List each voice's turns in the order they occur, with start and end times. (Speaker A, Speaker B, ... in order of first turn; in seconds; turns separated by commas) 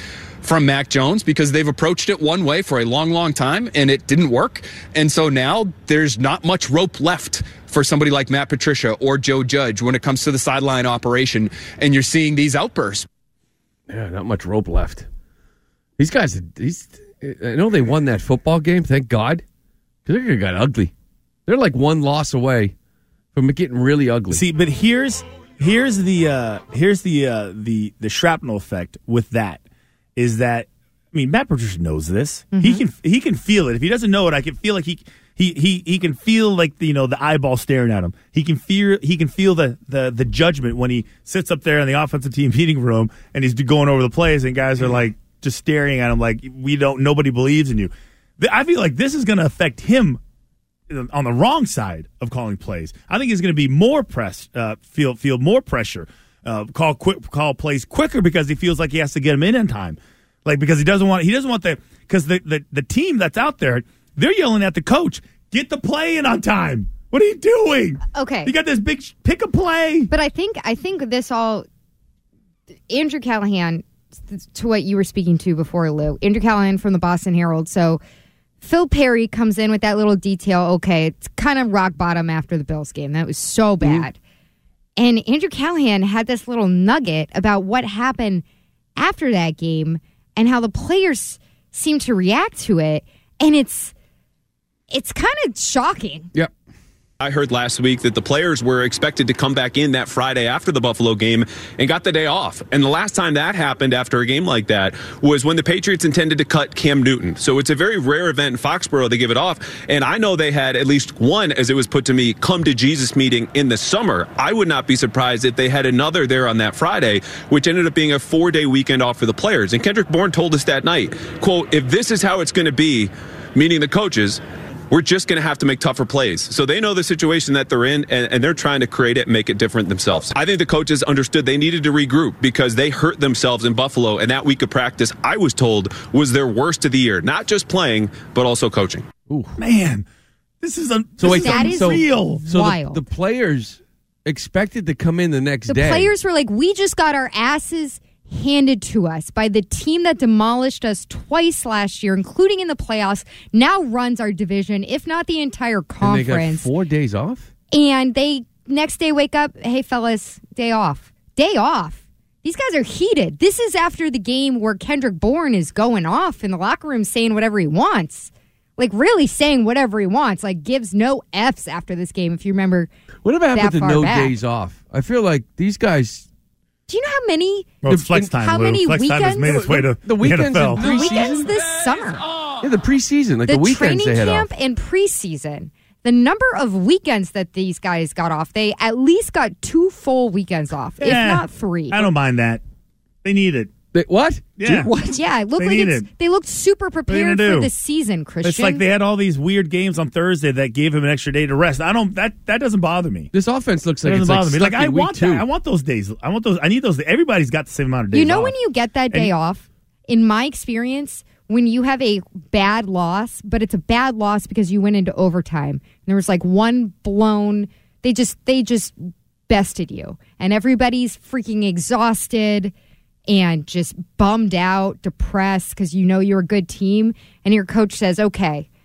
Speaker A: 0.4-13.1, Speaker B: 13.9-15.1, Speaker B: 16.0-19.4, Speaker B: 20.1-20.9, Speaker B: 21.5-22.7, Speaker B: 23.3-24.4, Speaker C: 24.3-29.6, Speaker C: 30.2-50.2, Speaker D: 32.5-32.8, Speaker C: 50.9-70.1, Speaker D: 68.1-68.5, Speaker D: 70.1-71.7, Speaker D: 72.9-78.0, Speaker D: 78.6-84.2, Speaker D: 85.0-88.4, Speaker D: 89.0-93.9, Speaker D: 94.9-96.3, Speaker E: 97.2-139.1, Speaker B: 139.3-139.6, Speaker C: 139.6-140.1, Speaker C: 140.6-142.4, Speaker B: 141.2-146.1, Speaker D: 141.2-143.0, Speaker D: 145.7-156.7, Speaker B: 156.0-157.5, Speaker D: 157.7-172.9, Speaker B: 173.2-176.3, Speaker D: 173.5-174.3, Speaker D: 176.9-179.7, Speaker C: 177.8-181.0, Speaker B: 177.9-178.2, Speaker B: 179.4-181.5, Speaker D: 180.8-182.2, Speaker B: 182.6-184.5, Speaker D: 183.5-192.1, Speaker C: 191.0-192.6, Speaker C: 193.2-193.7, Speaker B: 193.9-194.9, Speaker C: 194.6-194.9, Speaker D: 195.1-198.8, Speaker C: 195.6-196.1, Speaker C: 197.1-197.7, Speaker C: 198.4-203.3, Speaker B: 203.3-205.4, Speaker C: 204.0-208.6, Speaker D: 208.1-219.0, Speaker D: 219.5-222.7, Speaker D: 223.3-228.7